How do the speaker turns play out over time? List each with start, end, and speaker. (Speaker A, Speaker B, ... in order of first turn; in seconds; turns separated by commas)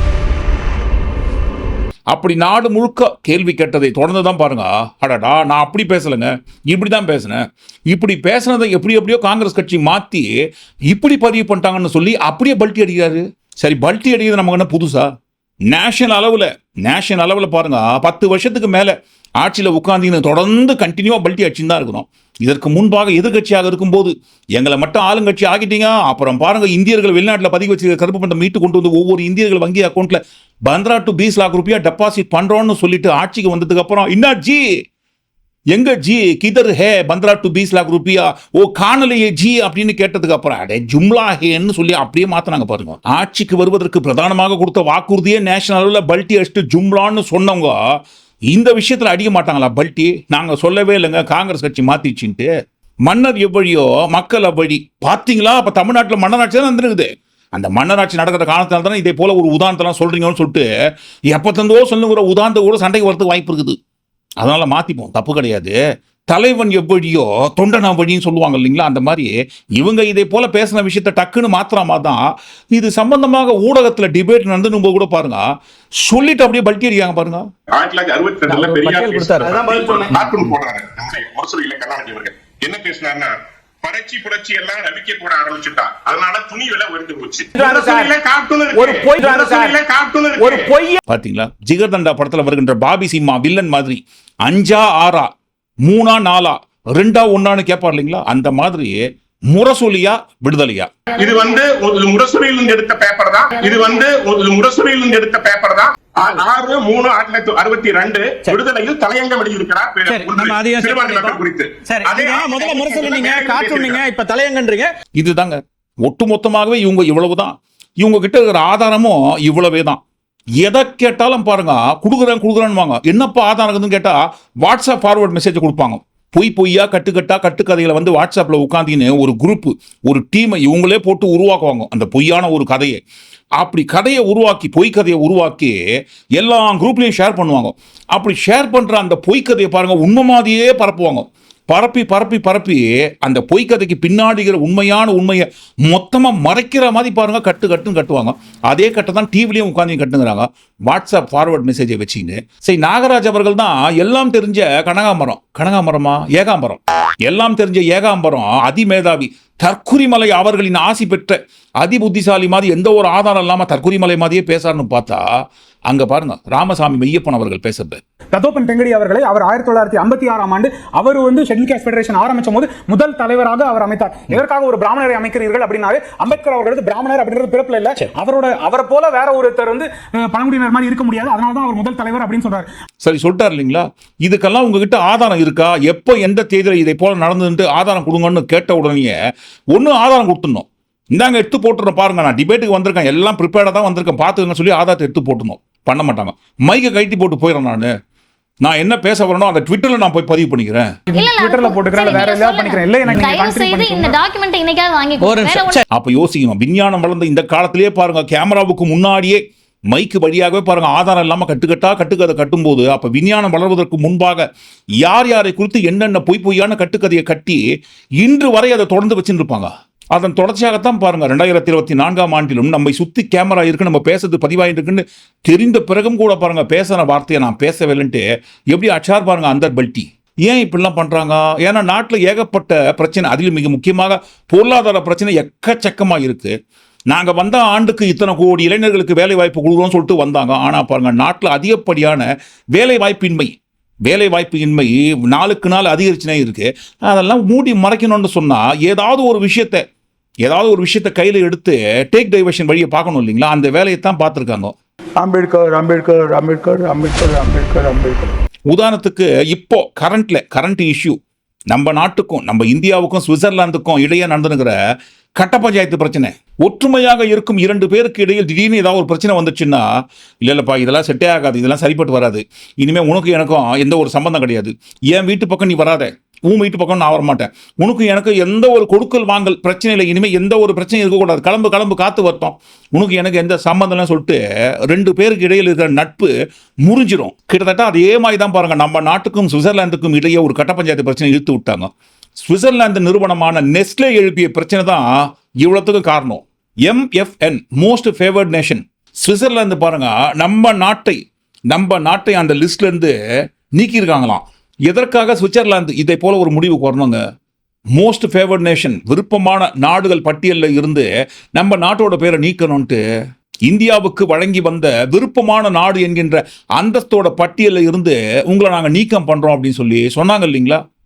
Speaker A: 2.1-10.3, Speaker A: 10.9-15.1, Speaker A: 15.7-34.7, Speaker A: 35.7-47.8, Speaker A: 48.5-52.5, Speaker A: 53.0-60.6, Speaker A: 61.3-63.7, Speaker A: 64.4-65.7, Speaker A: 66.3-75.4, Speaker A: 76.0-77.5, Speaker B: 77.7-90.7, Speaker C: 78.5-80.0, Speaker C: 87.5-88.1, Speaker C: 88.7-89.8, Speaker C: 90.4-91.0, Speaker A: 91.1-95.3, Speaker A: 95.8-100.9, Speaker B: 101.2-114.0, Speaker C: 110.1-114.9, Speaker A: 115.2-120.0, Speaker A: 120.6-133.0, Speaker A: 133.6-135.8, Speaker A: 136.3-165.2, Speaker A: 165.9-168.0, Speaker D: 168.3-182.7, Speaker A: 183.0-189.1, Speaker A: 189.7-197.9, Speaker A: 198.6-200.9, Speaker D: 201.1-204.2, Speaker E: 201.1-205.8, Speaker C: 205.2-205.8, Speaker A: 205.9-214.4, Speaker A: 215.0-217.6, Speaker A: 218.2-236.5, Speaker A: 237.1-243.5, Speaker A: 244.1-249.8, Speaker A: 250.4-254.7, Speaker F: 255.2-258.3, Speaker A: 258.7-261.2, Speaker A: 261.7-264.8, Speaker A: 265.4-269.9, Speaker A: 270.4-284.4, Speaker A: 284.9-286.3, Speaker A: 286.8-291.9, Speaker A: 292.4-295.1, Speaker A: 295.6-301.2, Speaker A: 301.7-303.1, Speaker A: 303.8-307.2, Speaker A: 307.9-313.0, Speaker A: 313.6-320.8